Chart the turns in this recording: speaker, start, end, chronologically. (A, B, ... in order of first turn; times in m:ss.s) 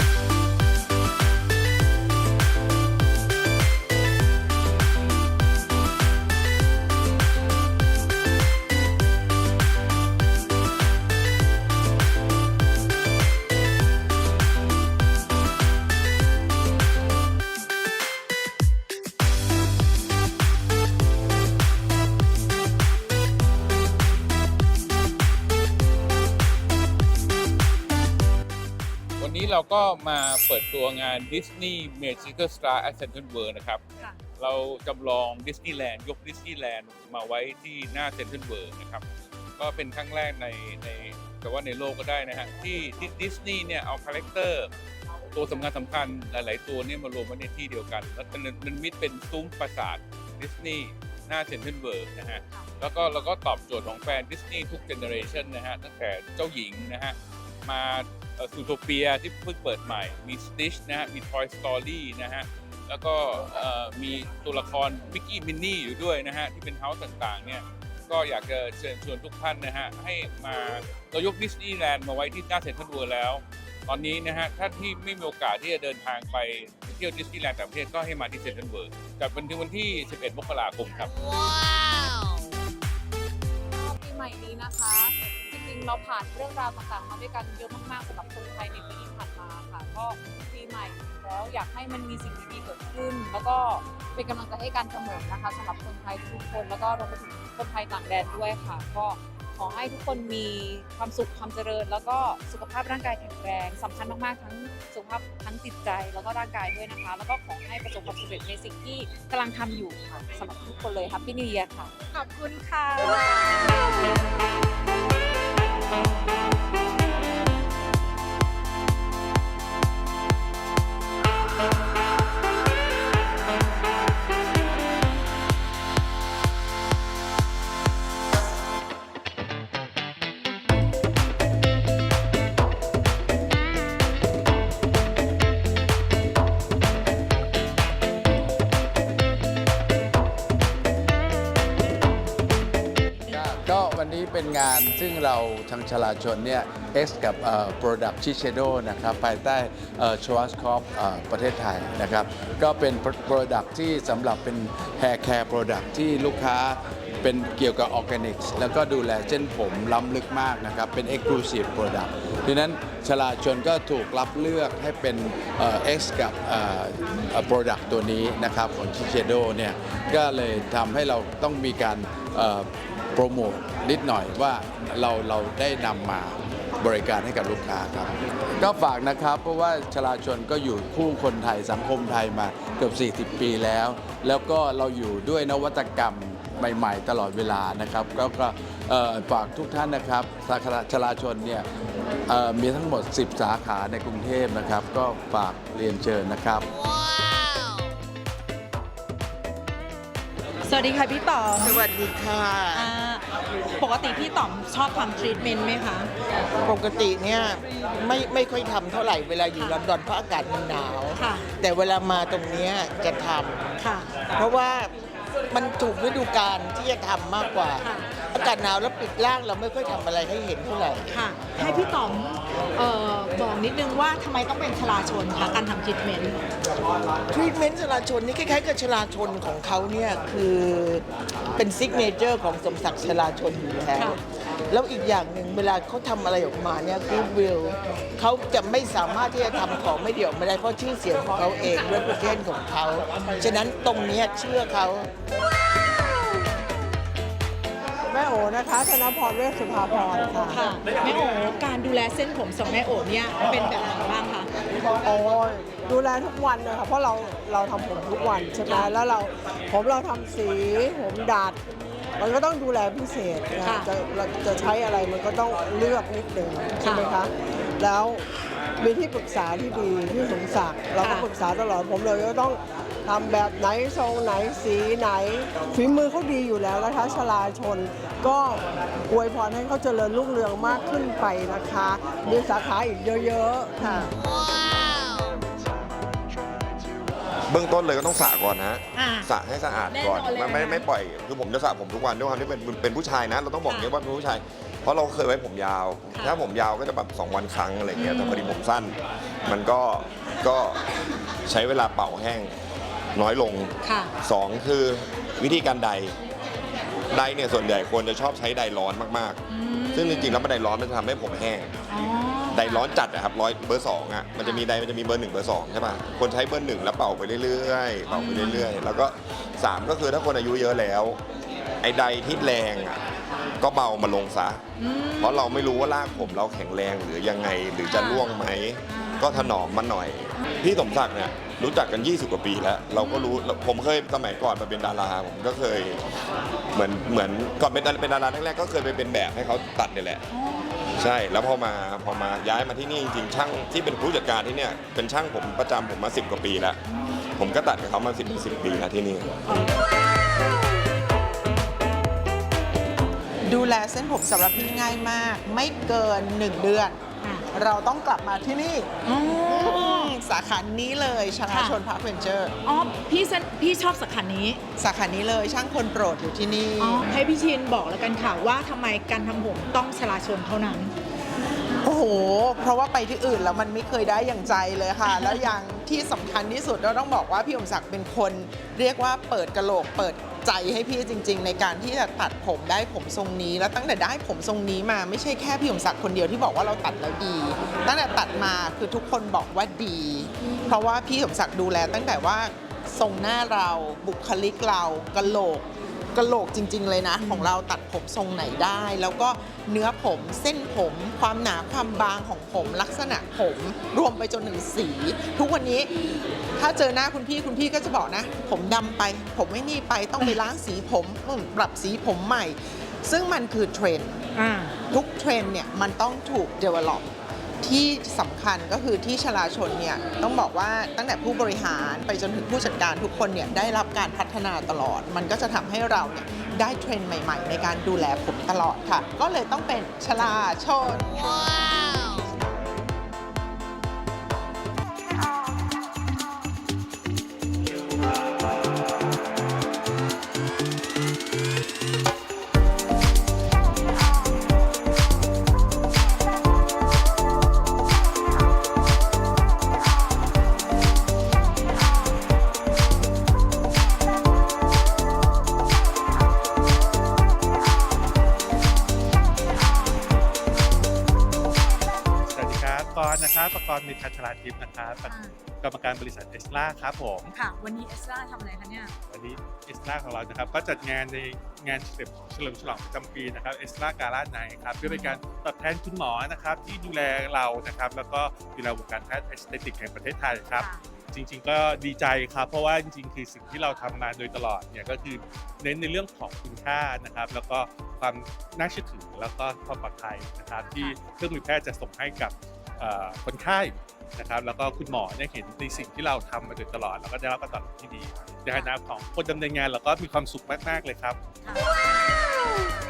0:29.2-0:33.8 A
0:34.4-0:39.0 A
0:39.6-0:44.7 A
0:45.3-1:21.1 A
1:23.7-1:53.3 B
1:52.1-1:53.3 C
2:23.3-3:11.7 D
3:12.3-3:16.7 D
3:20.6-3:21.9 C
3:21.6-3:22.9 E
3:22.7-3:26.1 C
3:26.6-3:33.7 E
3:29.6-3:29.8 C
3:31.2-3:31.5 C
3:33.8-3:34.2 C
3:34.2-3:34.9 E
3:35.5-3:41.2 E
3:37.8-3:38.1 C
3:41.1-3:46.4 C
3:47.3-3:51.0 E
3:51.6-4:05.1 E
4:08.1-4:10.7 F
4:10.5-4:14.5 C
4:15.0-4:21.6 F
4:18.6-4:18.9 C
4:22.2-4:28.2 F
4:23.6-4:23.9 C
4:26.8-4:27.1 C
4:28.8-4:44.0 F
4:31.0-4:31.3 C
4:43.8-4:44.1 C
4:47.5-5:00.8 G
4:48.9-4:49.3 C
4:49.9-4:50.9 C
4:53.7-4:53.9 C
4:56.1-4:56.4 C
4:58.0-4:58.5 C
5:01.5-5:02.5 G
5:03.2-5:06.2 G
5:03.8-5:04.1 C
5:07.1-5:11.7 G
5:09.5-5:10.4 C
5:11.9-5:12.9 C
5:12.5-5:21.2 G
5:14.4-5:14.7 C
5:18.2-5:18.8 C
5:21.8-5:23.0 G
5:23.6-5:24.6 G
5:24.8-5:25.6 C
5:25.1-5:36.0 G
5:27.8-5:28.4 C
5:28.9-5:29.6 C
5:33.0-5:33.4 C
5:36.7-5:40.2 G
5:40.3-5:40.8 C
5:40.9-5:46.8 G
5:47.4-5:49.3 G
5:53.5-5:57.0 H
5:57.5-5:58.9 H
5:59.0-6:00.1 C
5:59.5-6:02.5 H
6:01.5-6:01.8 C
6:02.6-6:04.6 C
6:04.8-6:07.1 H
6:06.8-6:10.9 C
6:11.8-6:45.9 H
6:15.2-6:15.4 C
6:46.6-6:54.2 H
6:54.4-6:54.8 C
6:54.9-6:57.1 H
6:57.6-7:12.2 H
7:42.3-7:47.3 I
7:45.1-7:45.3 C
7:47.3-7:48.9 C
7:49.1-8:21.2 I
7:54.8-7:55.2 C
8:00.6-8:00.8 C
8:21.4-8:21.7 C